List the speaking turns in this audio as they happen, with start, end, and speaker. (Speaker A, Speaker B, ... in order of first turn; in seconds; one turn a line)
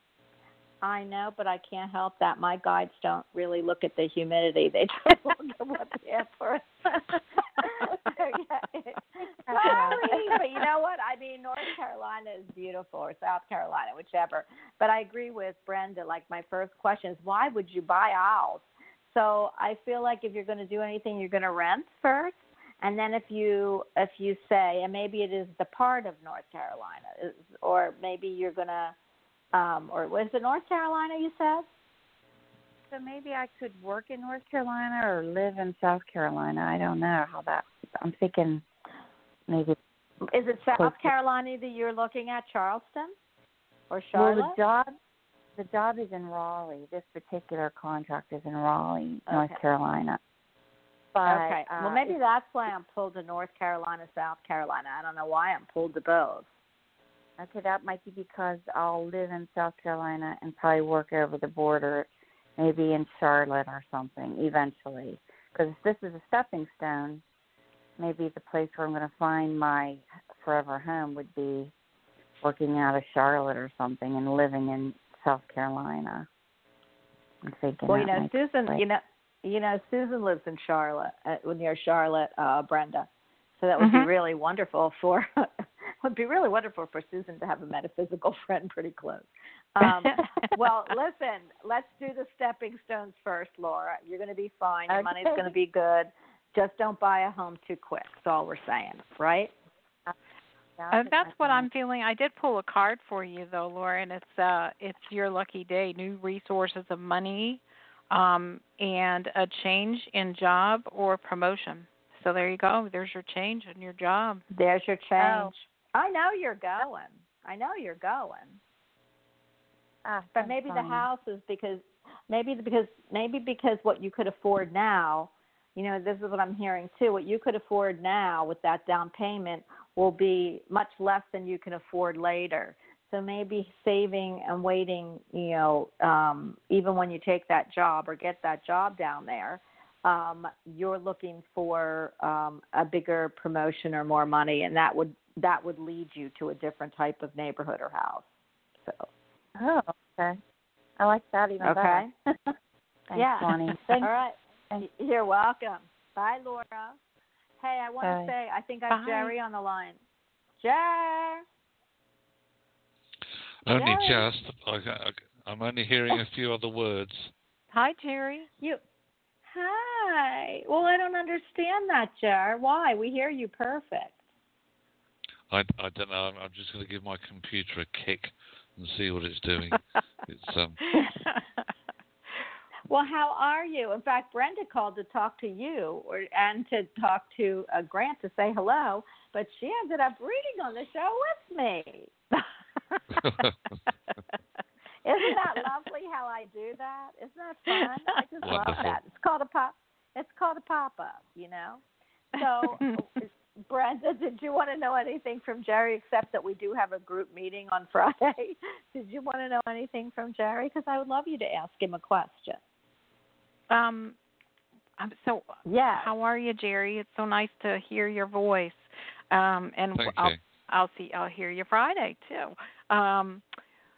Speaker A: 0.8-7.0
Speaker A: 7.6-28.9
Speaker B: 9.4-10.4
Speaker A: 29.5-31.6
Speaker B: 32.9-38.6
Speaker B: 39.5-39.8
Speaker A: 40.3-43.1
Speaker B: 40.7-41.1
Speaker A: 43.9-44.6
Speaker B: 44.1-44.9
Speaker B: 45.5-50.2
Speaker A: 49.3-49.6
Speaker B: 51.1-52.2
Speaker A: 51.2-56.5
Speaker B: 57.4-67.2
Speaker B: 68.0-71.7
Speaker B: 72.4-76.3
Speaker B: 77.4-78.8
Speaker A: 77.9-83.1
Speaker A: 83.6-85.5
Speaker C: 83.8-84.1
Speaker A: 86.0-99.5
Speaker B: 94.9-95.4
Speaker B: 100.8-101.7
Speaker C: 100.9-114.4
Speaker A: 114.5-118.6
Speaker B: 115.2-115.5
Speaker B: 120.0-121.1
Speaker A: 120.3-148.2
Speaker A: 148.8-149.1
Speaker B: 149.6-150.4
Speaker B: 151.0-152.0
Speaker A: 151.6-152.5
Speaker B: 153.1-154.1
Speaker A: 153.1-157.0
Speaker A: 157.6-160.0
Speaker B: 158.0-158.3
Speaker C: 158.9-159.3
Speaker A: 160.6-161.4
Speaker D: 163.6-167.3
Speaker A: 163.7-164.3
Speaker C: 167.7-168.5
Speaker A: 169.5-174.2
Speaker D: 175.5-180.8
Speaker C: 180.9-181.3
Speaker A: 182.9-192.1
Speaker D: 193.2-193.5
Speaker A: 195.0-201.8
Speaker D: 198.4-199.0
Speaker A: 202.3-212.6
Speaker C: 213.7-214.2
Speaker C: 215.0-223.4
Speaker A: 215.6-216.1
Speaker D: 219.9-220.4